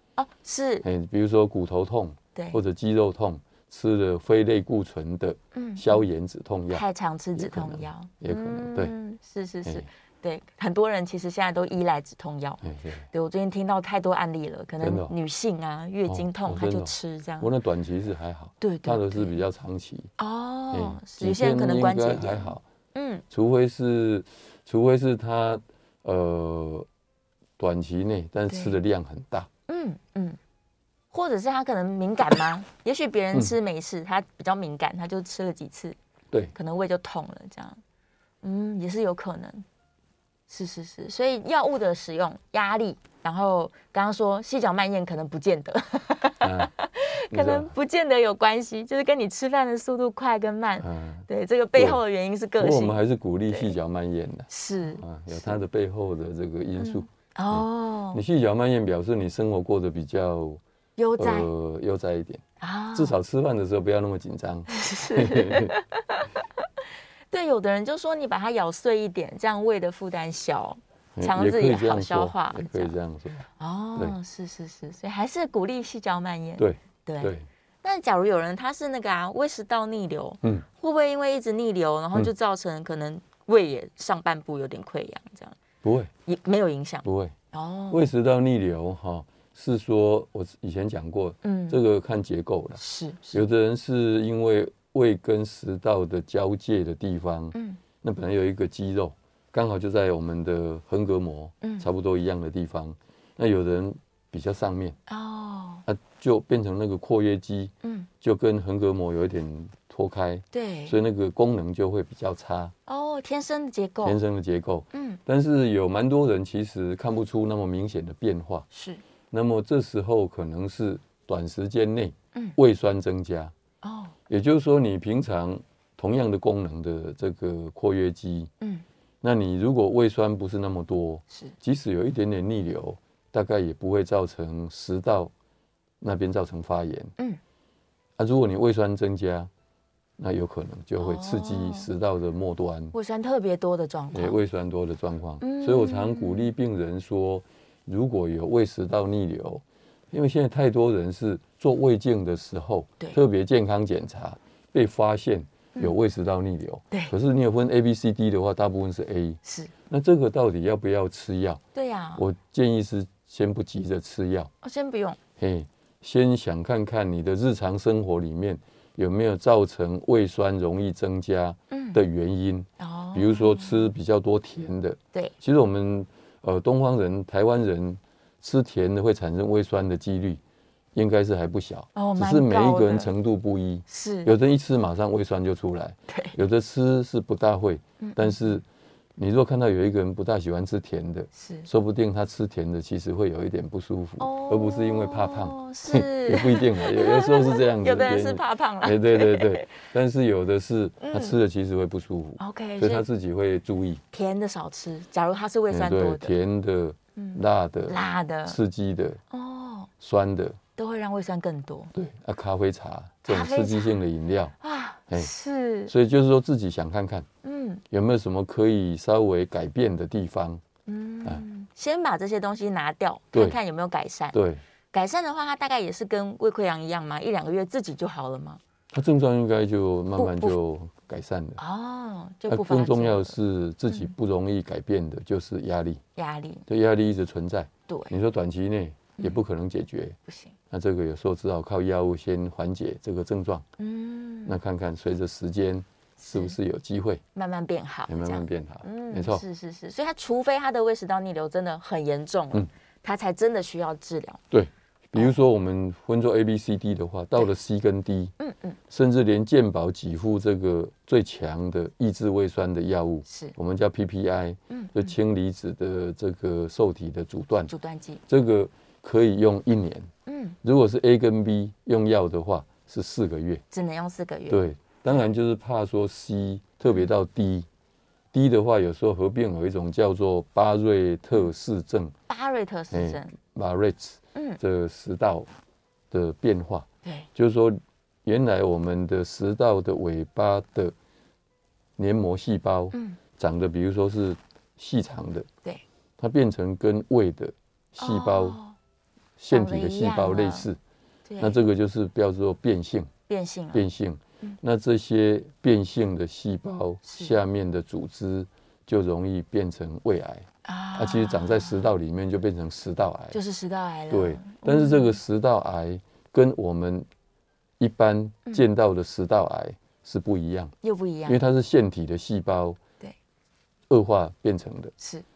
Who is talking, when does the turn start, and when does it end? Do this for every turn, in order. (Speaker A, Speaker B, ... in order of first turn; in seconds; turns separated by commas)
Speaker A: 0.2-0.9, Speaker B: 0.8-6.8, Speaker A: 2.4-2.6, Speaker A: 5.5-6.0, Speaker A: 6.7-12.6, Speaker B: 7.4-8.9, Speaker B: 12.6-13.0, Speaker A: 13.1-17.5, Speaker B: 14.8-15.1, Speaker B: 16.1-20.1, Speaker A: 18.6-19.4, Speaker A: 20.2-23.2, Speaker B: 20.7-22.6, Speaker B: 23.3-26.9, Speaker B: 27.6-29.5, Speaker A: 28.5-28.8, Speaker A: 29.7-30.4, Speaker A: 31.1-36.0, Speaker A: 36.5-37.8, Speaker A: 38.4-39.6, Speaker A: 40.5-53.0, Speaker B: 46.4-46.7, Speaker B: 47.3-47.7, Speaker B: 50.8-52.0, Speaker B: 52.6-60.6, Speaker A: 54.5-55.5, Speaker A: 56.8-58.2, Speaker A: 61.0-61.5, Speaker B: 61.2-65.7, Speaker A: 62.6-63.2, Speaker A: 64.7-66.3, Speaker A: 67.3-72.9, Speaker B: 71.2-74.2, Speaker A: 73.6-85.6, Speaker B: 76.6-77.5, Speaker B: 85.8-86.1, Speaker A: 86.3-88.1, Speaker B: 87.0-87.3, Speaker B: 87.9-92.8, Speaker A: 91.4-91.8, Speaker A: 92.8-93.5, Speaker B: 93.3-105.0, Speaker A: 97.5-97.8, Speaker A: 105.1-105.8, Speaker B: 105.9-112.7, Speaker A: 107.8-108.1, Speaker A: 110.5-111.0, Speaker A: 112.9-114.2, Speaker B: 114.0-118.7, Speaker A: 114.9-115.2, Speaker A: 118.7-119.0, Speaker B: 119.3-123.5, Speaker A: 123.8-124.2, Speaker B: 124.3-128.5, Speaker B: 129.2-135.3, Speaker B: 136.0-137.1, Speaker B: 138.2-139.5, Speaker B: 140.2-142.9, Speaker A: 141.0-141.9, Speaker A: 142.9-144.4, Speaker B: 144.1-159.4, Speaker A: 145.4-146.5, Speaker A: 159.4-159.7, Speaker B: 159.9-161.6, Speaker A: 161.8-162.2, Speaker B: 162.2-164.5, Speaker A: 164.6-165.2, Speaker B: 165.4-180.4, Speaker A: 171.7-172.0, Speaker A: 172.8-173.9, Speaker B: 180.9-188.6, Speaker A: 182.0-183.1, Speaker A: 183.9-184.3, Speaker A: 186.1-186.4, Speaker A: 188.0-188.6, Speaker B: 189.2-204.0, Speaker A: 191.3-191.7, Speaker A: 194.2-199.8, Speaker A: 201.0-201.4, Speaker A: 202.4-203.0, Speaker A: 204.1-206.3, Speaker B: 205.7-209.2, Speaker A: 207.2-208.6, Speaker A: 209.3-209.9, Speaker B: 210.0-210.6, Speaker A: 210.8-211.9, Speaker B: 211.9-214.6, Speaker A: 213.2-213.9, Speaker A: 214.6-215.9, Speaker B: 215.9-217.3, Speaker A: 217.4-217.8, Speaker B: 217.9-220.6, Speaker A: 220.9-224.4, Speaker B: 224.3-224.6, Speaker A: 224.9-228.6, Speaker B: 228.9-231.6, Speaker A: 230.2-230.6, Speaker A: 231.6-233.4, Speaker B: 232.5-236.0, Speaker A: 236.2-236.7, Speaker B: 236.7-240.2, Speaker A: 237.9-238.1, Speaker A: 240.3-240.6, Speaker B: 240.7-243.7, Speaker A: 243.8-244.6, Speaker B: 244.4-247.2, Speaker A: 246.2-246.6, Speaker A: 247.3-254.4, Speaker B: 248.1-249.4, Speaker B: 254.5-258.3, Speaker A: 258.4-258.8, Speaker B: 258.9-267.7, Speaker A: 263.3-263.5, Speaker A: 264.7-265.1, Speaker A: 267.7-268.2, Speaker B: 268.3-270.1, Speaker A: 270.3-270.6, Speaker B: 270.6-273.6, Speaker A: 273.7-274.6, Speaker B: 274.5-277.7, Speaker B: 278.3-282.1, Speaker A: 282.3-283.3, Speaker B: 282.9-285.5, Speaker B: 286.1-290.9, Speaker B: 292.0-295.5, Speaker A: 292.9-293.2, Speaker B: 296.2-298.6, Speaker A: 298.0-298.8, Speaker B: 299.4-300.8, Speaker A: 299.5-300.7, Speaker A: 301.3-301.6, Speaker B: 301.4-303.1, Speaker A: 303.3-303.9, Speaker B: 303.7-313.4, Speaker A: 307.1-307.4, Speaker A: 310.6-311.9, Speaker A: 313.3-315.2, Speaker B: 314.1-317.1, Speaker B: 317.8-320.7, Speaker A: 320.8-321.4, Speaker B: 321.3-322.8, Speaker B: 323.9-324.9, Speaker A: 325.0-325.2